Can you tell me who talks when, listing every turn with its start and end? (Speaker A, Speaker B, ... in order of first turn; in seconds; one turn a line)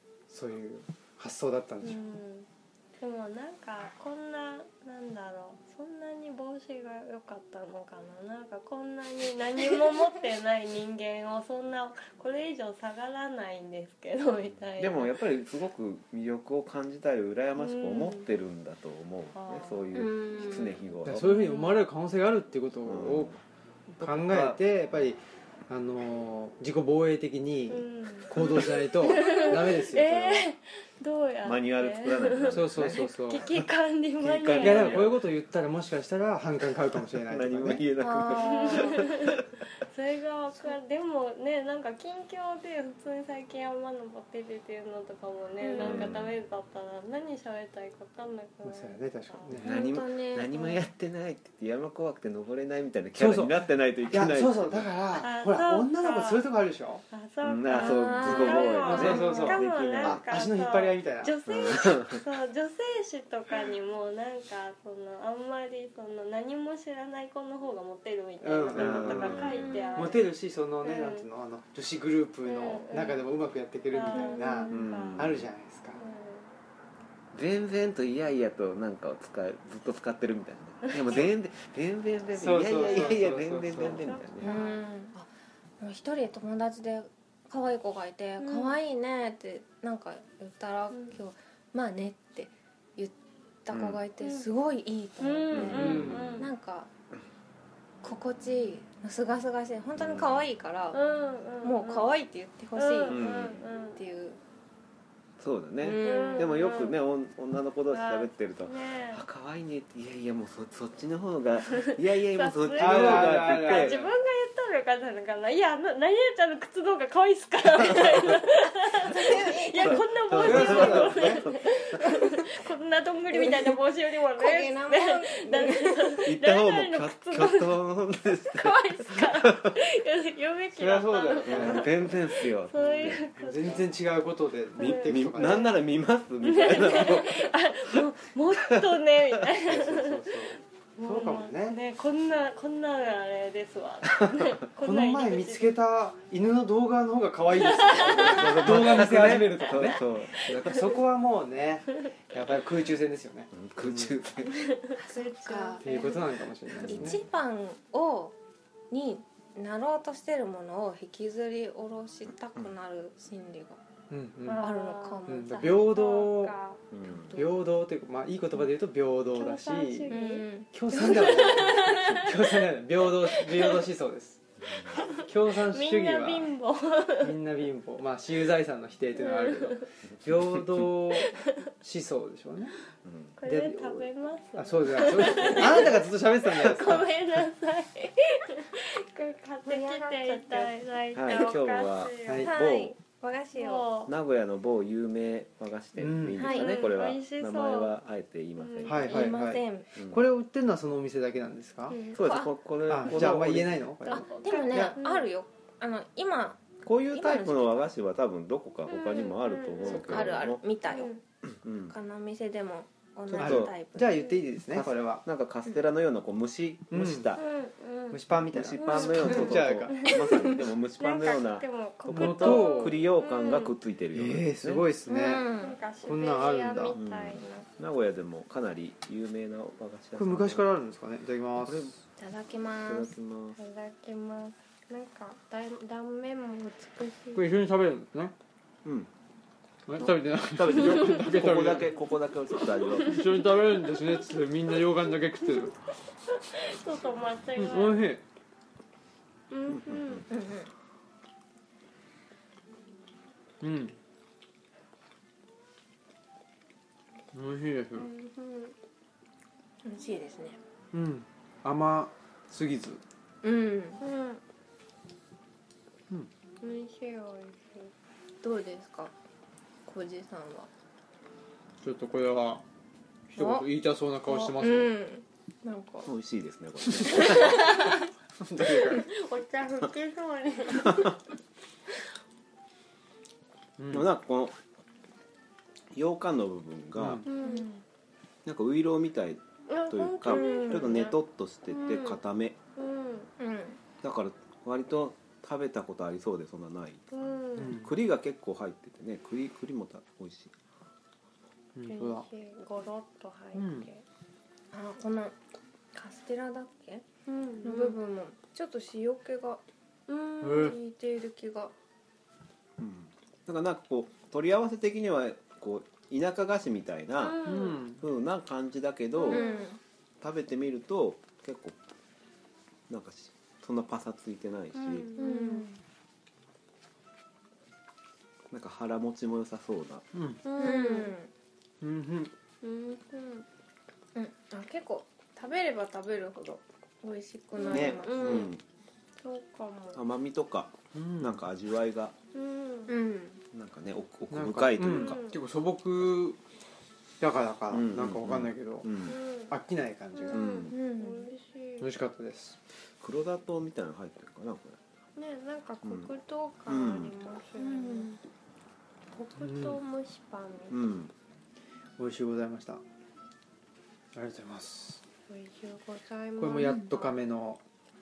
Speaker A: 0.3-2.0
Speaker B: 1.8-2.5
Speaker B: 3.0-15.2
Speaker C: 14.8-21.3
Speaker B: 17.6-18.3
Speaker B: 19.3-19.9
Speaker D: 19.9-21.8
Speaker A: 21.0-23.3
Speaker C: 22.8-23.4
Speaker C: 24.0-24.6
Speaker A: 24.0-30.5
Speaker B: 27.7-35.1
Speaker C: 28.3-28.8
Speaker C: 31.4-33.6
Speaker A: 32.5-33.5
Speaker C: 34.2-35.2
Speaker A: 34.6-37.8
Speaker C: 37.2-39.4
Speaker D: 38.0-39.1
Speaker B: 38.3-49.5
Speaker D: 45.6-46.1
Speaker C: 45.8-46.3
Speaker A: 48.6-49.7
Speaker C: 49.5-54.9
Speaker D: 49.6-50.9
Speaker A: 53.2-57.0
Speaker B: 55.1-56.5
Speaker B: 57.1-70.3
Speaker C: 57.4-60.2
Speaker D: 57.7-59.2
Speaker A: 58.2-61.4
Speaker C: 61.5-62.2
Speaker A: 68.4-76.0
Speaker C: 68.7-69.7
Speaker D: 69.5-70.2
Speaker B: 70.8-71.3
Speaker B: 72.4-73.2
Speaker B: 73.9-75.3
Speaker D: 74.0-74.7
Speaker C: 74.7-75.5
Speaker B: 76.0-76.5
Speaker C: 77.3-84.5
Speaker A: 82.3-84.1
Speaker B: 82.8-83.2
Speaker B: 83.8-84.8
Speaker D: 84.4-85.3
Speaker D: 85.8-96.9
Speaker B: 88.4-88.8
Speaker C: 93.7-94.0
Speaker B: 94.2-94.5
Speaker B: 95.2-96.5
Speaker C: 95.5-96.4
Speaker A: 95.7-96.3
Speaker D: 98.0-101.0
Speaker C: 100.0-100.4
Speaker B: 100.9-102.1
Speaker D: 101.6-104.4
Speaker B: 102.8-104.0
Speaker C: 103.1-103.6
Speaker C: 105.4-114.0
Speaker D: 105.8-106.6
Speaker B: 106.0-107.0
Speaker B: 107.9-109.2
Speaker B: 111.8-127.8
Speaker A: 112.8-114.1
Speaker C: 117.8-118.4
Speaker D: 118.8-120.0
Speaker C: 119.8-122.0
Speaker A: 120.4-121.4
Speaker D: 123.3-123.8
Speaker D: 124.3-126.2
Speaker C: 126.2-129.8
Speaker B: 128.4-133.9
Speaker A: 130.7-131.9
Speaker C: 131.5-133.2
Speaker A: 133.0-135.7
Speaker B: 134.8-135.7
Speaker C: 134.8-139.4
Speaker B: 136.4-140.4
Speaker A: 139.7-141.8
Speaker B: 140.9-145.8
Speaker C: 144.2-144.5
Speaker A: 144.8-154.1
Speaker B: 147.6-148.8
Speaker C: 148.0-151.0
Speaker C: 153.5-154.6
Speaker B: 154.5-156.7
Speaker D: 154.9-156.2
Speaker A: 155.8-157.2
Speaker D: 156.8-158.3
Speaker D: 158.9-163.8
Speaker A: 164.1-164.7
Speaker B: 164.4-166.8
Speaker D: 164.5-166.1
Speaker A: 165.3-166.5
Speaker C: 166.9-167.4
Speaker D: 167.1-167.5
Speaker A: 167.3-170.1
Speaker B: 169.3-172.6
Speaker D: 170.1-171.6
Speaker A: 170.7-174.4
Speaker B: 173.2-173.9
Speaker C: 174.7-175.0
Speaker B: 174.9-177.3
Speaker A: 175.2-176.5
Speaker A: 177.2-182.8
Speaker B: 179.2-179.9
Speaker C: 180.3-180.9
Speaker B: 181.1-181.5
Speaker C: 183.0-183.3
Speaker B: 183.4-192.8
Speaker A: 183.4-187.1
Speaker D: 189.7-190.8
Speaker C: 191.1-192.9
Speaker D: 192.4-193.9
Speaker B: 193.5-194.1
Speaker C: 194.1-199.3
Speaker A: 196.0-196.5
Speaker D: 196.3-196.8
Speaker B: 196.5-197.9
Speaker B: 198.6-199.1
Speaker A: 198.8-202.0
Speaker D: 199.1-199.9
Speaker C: 199.9-200.2
Speaker B: 201.9-202.4
Speaker D: 202.1-202.5
Speaker C: 202.1-203.9
Speaker A: 202.9-204.9
Speaker B: 204.0-205.3
Speaker D: 204.1-207.9
Speaker C: 206.8-210.6
Speaker B: 208.9-211.2
Speaker D: 209.8-211.1
Speaker C: 211.6-211.9
Speaker D: 211.9-214.3
Speaker C: 213.3-213.7
Speaker A: 213.4-215.2
Speaker C: 214.7-217.4
Speaker A: 216.9-217.4
Speaker B: 217.4-218.2
Speaker A: 218.1-220.1
Speaker C: 218.3-224.9
Speaker B: 218.8-223.7
Speaker D: 220.2-220.6
Speaker A: 222.1-223.0
Speaker A: 224.1-225.5
Speaker D: 225.1-225.8
Speaker B: 225.5-227.7
Speaker A: 226.0-226.9
Speaker C: 226.9-230.7
Speaker A: 230.2-231.9
Speaker C: 231.6-231.9
Speaker D: 232.2-233.1
Speaker C: 232.8-233.6
Speaker B: 233.6-237.5
Speaker A: 237.3-238.3
Speaker A: 239.9-242.0
Speaker C: 240.0-243.4
Speaker A: 242.9-245.8
Speaker B: 243.1-244.0
Speaker B: 245.4-245.7
Speaker B: 246.3-248.1
Speaker A: 247.6-248.2
Speaker B: 249.5-250.2
Speaker C: 249.7-250.3
Speaker D: 250.3-250.7
Speaker A: 253.6-254.0
Speaker A: 257.3-258.1
Speaker B: 257.9-258.8
Speaker D: 259.8-260.6
Speaker A: 260.9-263.0
Speaker D: 263.4-264.0
Speaker B: 264.0-264.4
Speaker B: 266.6-267.9
Speaker D: 268.4-269.1
Speaker D: 269.8-270.7
Speaker A: 271.8-272.6
Speaker A: 273.3-274.9
Speaker D: 273.3-273.6
Speaker D: 274.2-276.1
Speaker C: 276.1-277.9
Speaker A: 276.9-277.3
Speaker D: 277.1-277.9
Speaker A: 278.4-279.1
Speaker B: 278.7-281.1
Speaker C: 280.8-281.1
Speaker A: 283.8-284.1
Speaker C: 283.9-284.6
Speaker C: 285.9-287.2
Speaker A: 287.0-287.3
Speaker B: 287.2-287.7
Speaker D: 287.4-287.8
Speaker C: 288.4-292.6
Speaker B: 289.7-291.2
Speaker D: 290.2-291.1
Speaker B: 291.7-292.2
Speaker B: 292.8-293.3
Speaker D: 293.4-293.8
Speaker C: 294.0-297.1
Speaker B: 297.1-297.8
Speaker A: 297.6-297.9
Speaker C: 297.6-300.5
Speaker A: 301.7-302.2
Speaker B: 301.9-304.0
Speaker A: 303.5-303.9
Speaker D: 304.7-305.4
Speaker D: 305.9-307.0
Speaker B: 307.2-308.0
Speaker D: 307.6-309.6
Speaker B: 310.1-310.8
Speaker A: 310.4-310.8
Speaker D: 310.4-311.7
Speaker C: 312.8-317.4
Speaker B: 317.2-317.8
Speaker A: 317.4-318.0
Speaker C: 318.0-319.6
Speaker B: 319.2-319.6
Speaker D: 319.2-319.8
Speaker C: 320.2-321.8
Speaker C: 322.9-325.1
Speaker B: 324.7-325.7
Speaker D: 325.1-325.8
Speaker C: 328.5-330.1
Speaker A: 330.1-330.4
Speaker B: 330.4-331.1
Speaker D: 330.6-331.3
Speaker A: 331.8-332.3
Speaker B: 332.6-333.4
Speaker D: 334.1-338.5
Speaker B: 337.5-338.5
Speaker C: 337.7-338.6
Speaker B: 339.2-340.0
Speaker C: 339.9-342.1
Speaker A: 340.9-341.4
Speaker B: 342.3-342.9
Speaker D: 342.9-343.4
Speaker C: 343.5-345.2
Speaker A: 344.3-346.4
Speaker B: 344.9-345.4
Speaker A: 347.2-348.9
Speaker C: 347.7-349.2
Speaker B: 349.0-349.5
Speaker A: 349.5-350.4
Speaker B: 350.1-351.9
Speaker C: 350.3-350.7
Speaker D: 350.7-351.2
Speaker A: 351.8-352.6
Speaker C: 353.0-354.8
Speaker B: 355.1-358.2
Speaker C: 355.8-356.1
Speaker C: 356.7-357.1
Speaker D: 357.6-358.2
Speaker B: 359.1-360.8
Speaker A: 359.4-359.8
Speaker C: 360.7-361.1
Speaker A: 362.0-362.8
Speaker A: 364.1-365.0
Speaker B: 365.3-367.1
Speaker A: 366.4-367.6